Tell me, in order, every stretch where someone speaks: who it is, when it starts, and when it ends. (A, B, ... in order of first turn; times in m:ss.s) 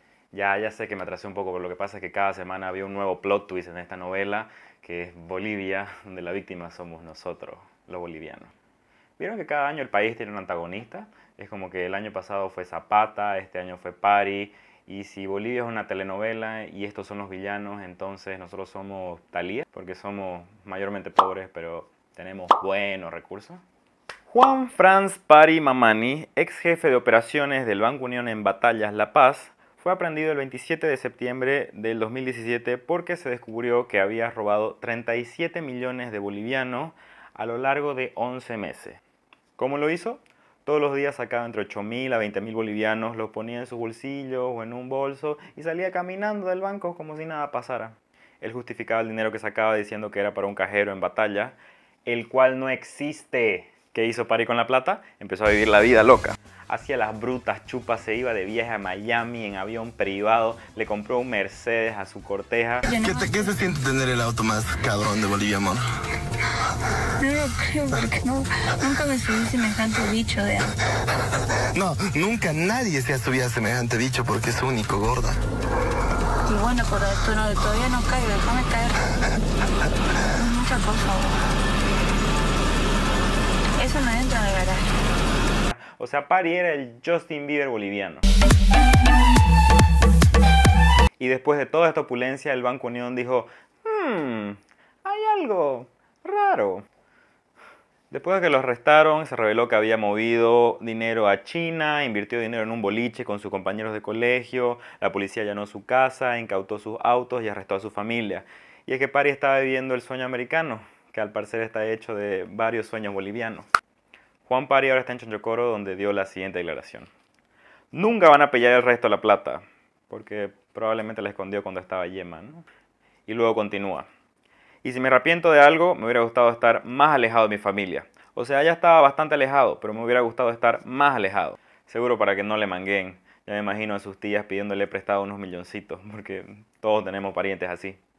0:00.3-0:08.5 A
0:09.2-0:23.6 A
0:24.3-0:39.0 A
0:39.6-1:02.9 A
1:02.9-1:03.4 B
1:02.9-1:05.9 C
1:07.2-1:10.7 B
1:11.7-1:15.4 C
1:16.5-1:19.0 B
1:20.3-1:21.5 B
1:23.8-1:24.9 B
1:25.7-1:28.2 A
1:31.2-1:36.8 A
1:38.1-1:53.7 A
1:54.4-1:57.1 A
1:57.9-2:02.6 A
2:03.3-2:04.1 A
2:04.8-2:18.0 A